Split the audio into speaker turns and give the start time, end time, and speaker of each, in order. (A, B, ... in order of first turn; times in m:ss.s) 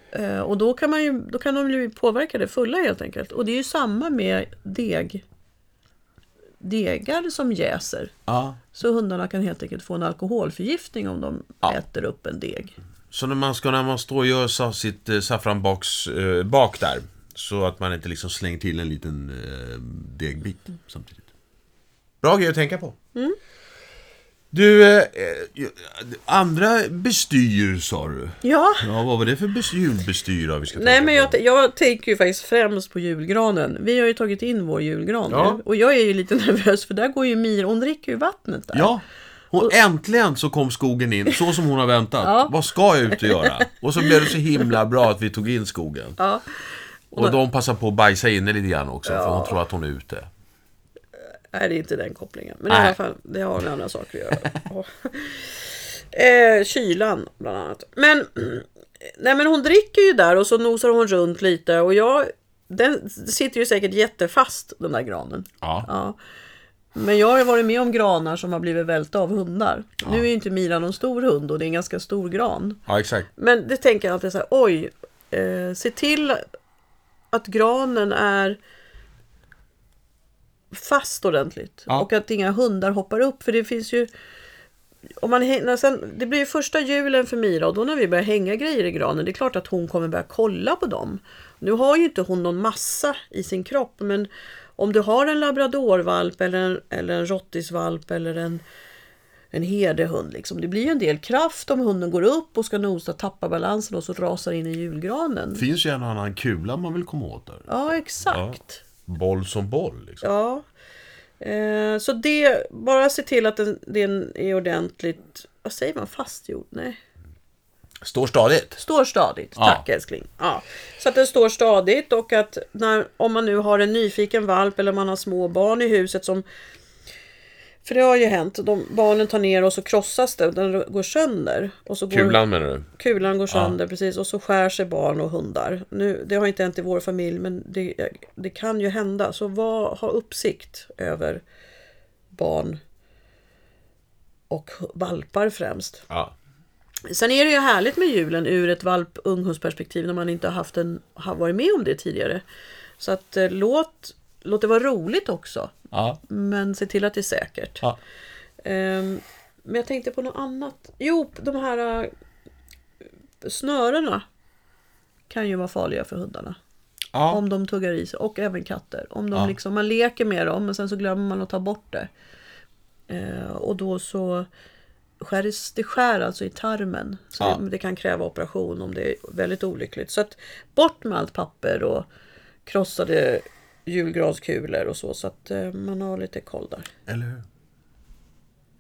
0:00.1-0:05.2 A
0:06.6-0:08.1 A
0:08.3-0:08.6 B
0:08.7-0:12.7 A
0:13.1-0:21.3 B
0:22.2-0:23.0 B
0:24.5-0:31.4 B
0:28.4-0:28.8 A
0:30.8-0:38.9 A
0:35.3-0:35.6 B
0:38.7-0:46.2 B
0:42.2-0:42.5 A
0:43.1-0:44.3 A
0:46.2-0:47.4 A
0:47.1-0:50.3 B
0:49.1-0:49.6 A
0:51.5-1:06.2 A
0:52.7-0:53.0 B
1:05.6-1:05.9 B
1:07.0-1:12.8 A
1:12.9-1:13.3 B
1:13.4-1:16.4 A
1:17.3-1:18.6 A
1:20.7-1:24.1 A
1:25.2-1:38.6 A
1:39.5-1:45.6 A
1:45.5-1:47.7 B
1:47.7-1:48.8 A
1:48.3-1:50.2 B
1:50.2-1:50.6 A
1:51.4-1:57.0 A
1:58.0-1:58.8 B
1:58.8-2:06.4 A
1:59.6-1:59.8 B
2:07.8-2:21.4 A
2:12.1-2:12.9 B
2:13.5-2:13.8 B
2:22.3-2:22.8 A
2:24.5-2:26.0 A
2:27.1-2:32.4 A
2:33.0-2:35.8 A
2:35.9-2:36.2 B
2:36.3-2:37.8 A
2:38.6-2:42.1 A
2:43.4-2:44.2 A
2:45.3-2:46.6 A
2:47.1-2:47.4 B
2:47.3-2:52.1 A
2:53.1-2:54.5 A
2:55.2-3:02.1 A
3:02.7-3:06.9 A
3:07.1-3:07.4 B